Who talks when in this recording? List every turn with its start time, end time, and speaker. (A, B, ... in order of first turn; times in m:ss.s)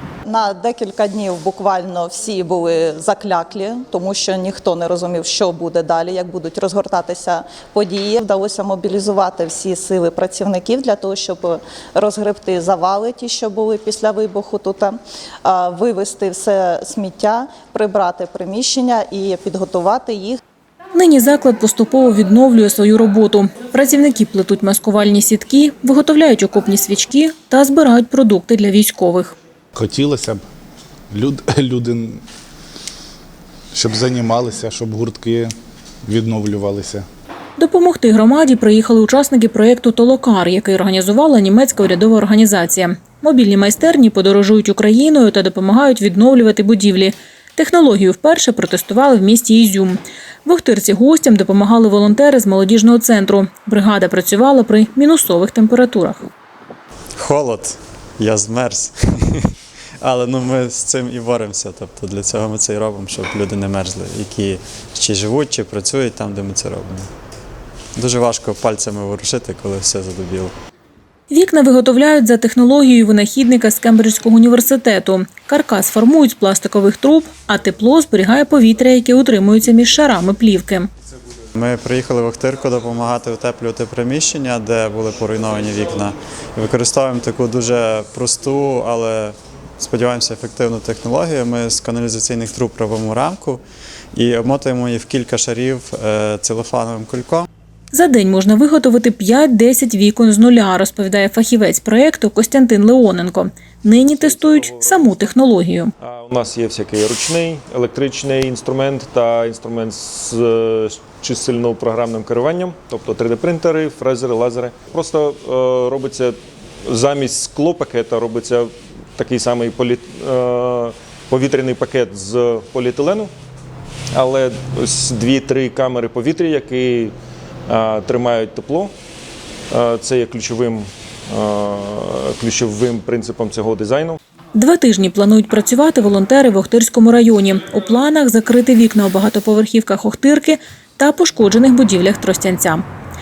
0:00.3-0:20.4 A
0:20.9-0:29.4 B
0:29.8-0:30.4 C
0:31.1-0:32.2 C
0:33.7-0:35.5 C
0:36.1-0:37.0 C
0:37.6-0:56.3 B
0:57.2-1:07.1 D
1:08.0-1:10.5 D
1:11.3-1:20.9 B
1:21.6-1:33.6 D
1:34.1-1:37.5 D
1:37.9-1:45.9 B
1:44.1-1:45.2 E
1:46.0-2:03.3 E
2:04.1-2:07.1 E
2:07.7-2:08.9 E
2:09.7-2:14.2 E
2:14.5-2:22.8 B